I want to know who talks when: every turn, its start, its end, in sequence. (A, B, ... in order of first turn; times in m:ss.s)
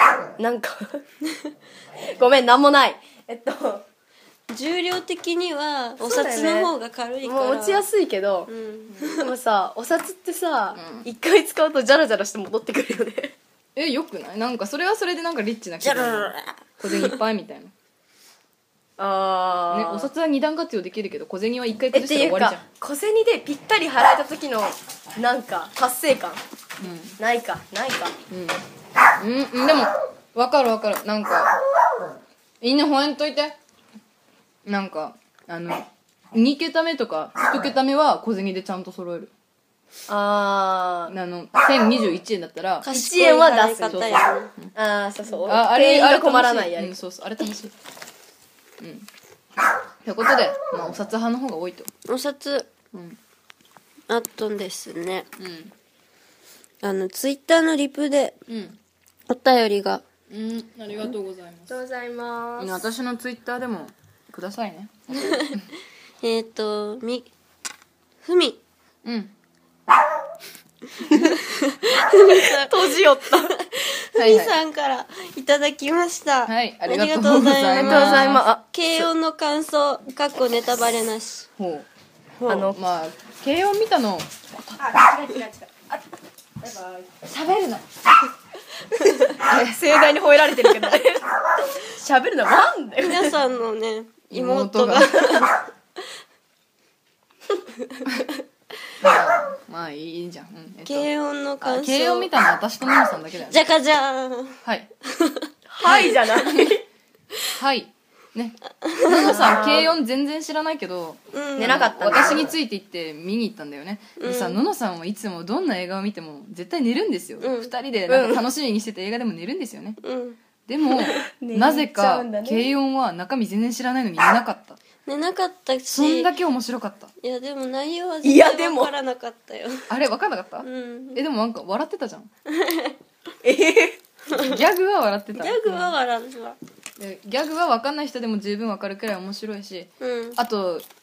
0:00.4-0:01.0 A
0:02.0-0:03.8 A
0:04.5-0:07.9 B
0:06.0-0:08.5 A
0:08.5-0:09.3 B
0:09.1-0:13.4 A
0:10.8-0:11.1 C
0:13.8-0:17.7 C
0:15.8-0:17.1 B
0:19.0-0:20.1 A
0:19.7-0:22.6 C
0:21.9-0:26.4 A
0:26.8-0:27.2 C
0:27.2-0:28.2 A
0:28.3-0:28.6 C
0:29.2-0:31.6 C
0:32.6-0:33.6 C
0:34.6-0:39.3 C
0:40.1-0:41.1 A
0:41.1-0:42.9 C
0:42.8-0:44.5 B
0:42.9-0:47.0 A
0:43.9-0:44.7 C
0:45.4-0:47.7 C
0:48.8-0:49.1 C
0:50.0-0:51.9 C
0:52.1-0:52.7 B
0:52.9-0:53.2 C
0:54.1-0:55.3 B
0:55.4-0:55.7 C
0:56.8-0:58.4 B
0:58.5-0:58.8 C
0:59.3-1:00.0 B
1:00.3-1:01.8 C
1:01.7-1:02.8 A
1:02.6-1:05.7 C
1:06.2-1:07.3 B
1:08.2-1:08.6 B
1:09.0-1:09.3 C
1:11.0-1:11.4 A
1:11.3-1:21.4 B
1:12.3-1:13.5 A
1:14.1-1:14.6 C
1:16.4-1:18.4 C
1:17.7-1:19.1 A
1:21.6-1:21.9 C
1:22.4-1:22.8 A
1:22.5-1:24.3 C
1:24.8-1:26.0 A
1:26.6-1:27.2 A
1:27.2-1:27.8 C
1:29.0-1:33.4 A
1:29.4-1:29.8 C
1:33.0-1:35.6 B
1:34.3-1:35.4 C
1:39.0-1:41.1 C
1:40.9-1:42.3 B
1:41.6-1:43.6 C
1:43.5-1:46.1 B
1:45.7-1:46.8 A
1:45.8-1:46.7 C
1:47.5-2:00.0 C
1:48.8-1:49.4 B
1:49.2-1:49.9 A
1:51.3-1:51.9 B
1:51.6-1:52.5 A
1:54.2-1:54.6 B
1:57.4-1:57.7 B
1:58.1-1:58.4 A
2:00.0-2:00.4 B
2:00.6-2:04.8 C
2:01.0-2:02.7 A
2:05.0-2:06.3 B
2:05.9-2:07.1 C
2:07.2-2:09.9 B
2:08.2-2:08.9 A
2:09.9-2:12.3 C
2:10.6-2:11.2 B
2:12.6-2:12.9 B
2:13.4-2:14.0 A
2:14.3-2:15.9 C
2:14.3-2:14.6 B
2:15.4-2:16.6 B
2:17.0-2:20.8 C
2:20.0-2:20.4 B